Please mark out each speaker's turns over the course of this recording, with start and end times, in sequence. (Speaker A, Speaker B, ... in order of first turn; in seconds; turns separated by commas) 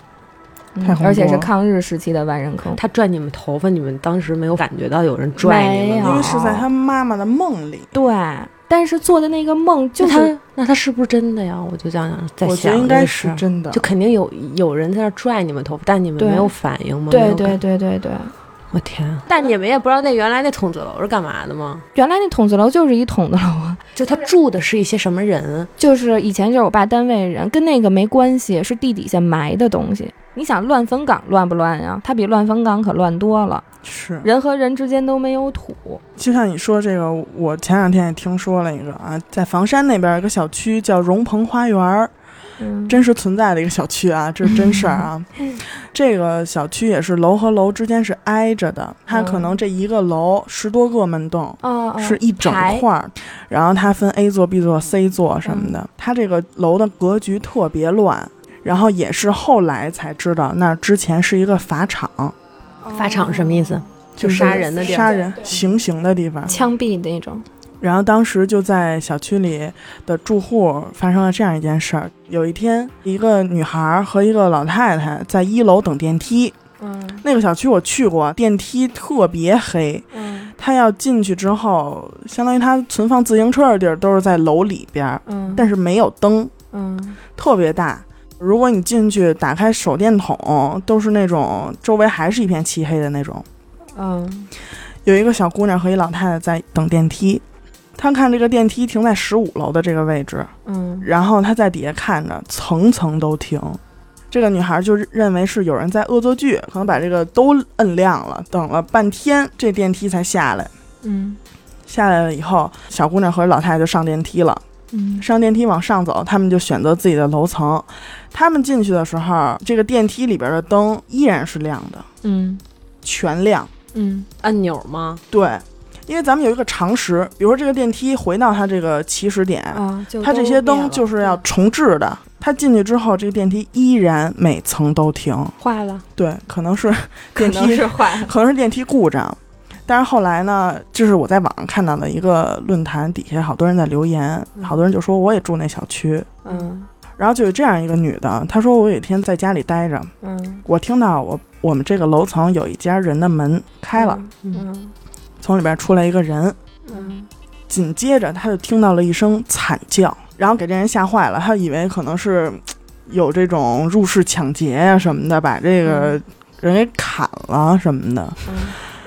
Speaker A: 0.8-2.8, Speaker B: 0.8-1.5, Speaker C: 2.7-6.2, Speaker A: 5.4-6.7, Speaker B: 6.0-7.9, Speaker A: 7.9-10.3, Speaker C: 10.0-17.6, Speaker B: 12.4-13.8, Speaker A: 16.2-16.5, Speaker A: 17.1-18.3, Speaker C: 18.7-21.8, Speaker A: 21.9-23.8, Speaker C: 23.9-25.7, Speaker A: 25.8-33.6, Speaker B: 33.8-34.3, Speaker A: 34.2-36.0, Speaker B: 36.1-42.1, Speaker A: 42.6-43.0, Speaker B: 42.9-62.3, Speaker A: 44.6-45.1, Speaker A: 49.1-49.5, Speaker A: 51.6-52.8, Speaker A: 55.4-55.8, Speaker A: 62.8-65.1, Speaker C: 62.9-65.2, Speaker B: 64.2-66.5, Speaker A: 66.5-67.5, Speaker B: 67.8-76.5, Speaker A: 76.8-77.2, Speaker B: 77.2-80.0, Speaker A: 80.1-80.5, Speaker B: 80.6-86.5, Speaker A: 85.2-85.7, Speaker A: 86.7-87.2, Speaker B: 87.4-93.4, Speaker A: 93.9-94.5, Speaker B: 95.0-97.4, Speaker B: 98.0-103.8, Speaker A: 100.7-101.1, Speaker B: 104.3-110.7, Speaker A: 111.0-111.4, Speaker B: 111.9-114.6, Speaker A: 114.9-115.2, Speaker B: 115.2-122.0, Speaker A: 122.2-122.6, Speaker B: 123.0-123.7, Speaker A: 123.9-124.3, Speaker C: 124.4-125.2, Speaker B: 125.3-135.6, Speaker A: 129.7-131.4, Speaker C: 135.6-136.0, Speaker B: 136.2-146.3, Speaker A: 137.3-138.3, Speaker A: 146.4-146.9, Speaker B: 147.2-150.1, Speaker A: 150.2-150.6, Speaker B: 150.6-154.2, Speaker A: 154.0-154.9, Speaker B: 155.4-156.6, Speaker A: 156.9-157.3, Speaker B: 157.7-168.7, Speaker A: 168.5-168.7